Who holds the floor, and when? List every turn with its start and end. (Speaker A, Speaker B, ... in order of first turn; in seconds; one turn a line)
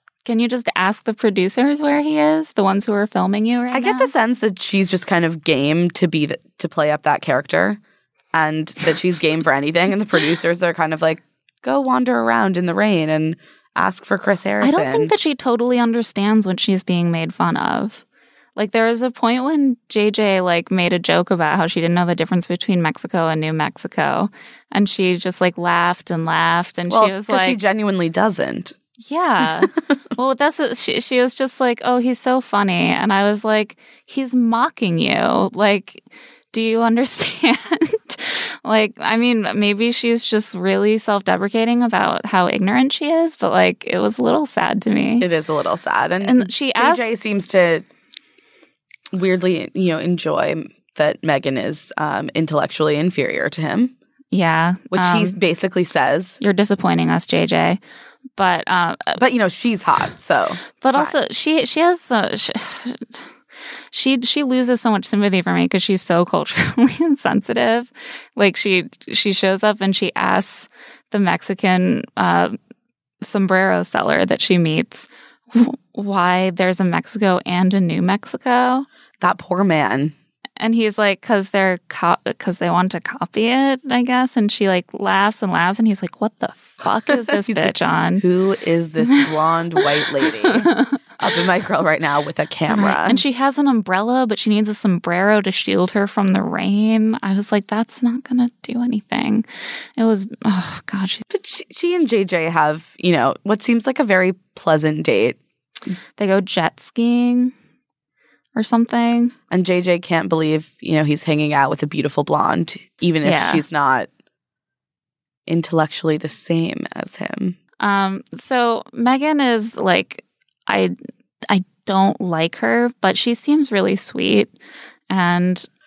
Speaker A: 0.2-4.1
Speaker B: 3.7-7.8
Speaker B: 8.3-15.1
Speaker A: 14.6-18.0
Speaker A: 18.6-27.6
Speaker B: 26.9-28.8
Speaker A: 29.0-45.3
Speaker B: 29.6-29.9
Speaker B: 45.2-47.9
Speaker A: 46.2-47.1
Speaker B: 49.1-53.9
Speaker A: 54.3-55.4
Speaker B: 54.9-56.4
Speaker A: 56.4-57.8
Speaker A: 58.4-59.2
Speaker B: 59.2-61.2
Speaker A: 60.8-63.2
Speaker A: 63.9-72.6
Speaker A: 73.2-78.8
Speaker B: 79.2-80.1
Speaker A: 80.6-88.2
Speaker B: 87.2-93.2
Speaker A: 90.6-90.9
Speaker A: 92.7-99.5
Speaker A: 100.0-101.2
Speaker B: 101.3-105.4
Speaker A: 106.2-107.5
Speaker A: 108.5-109.3
Speaker B: 109.5-114.1
Speaker A: 113.2-113.6
Speaker B: 115.5-117.6
Speaker A: 117.8-120.9
Speaker A: 121.5-124.5
Speaker A: 125.1-125.7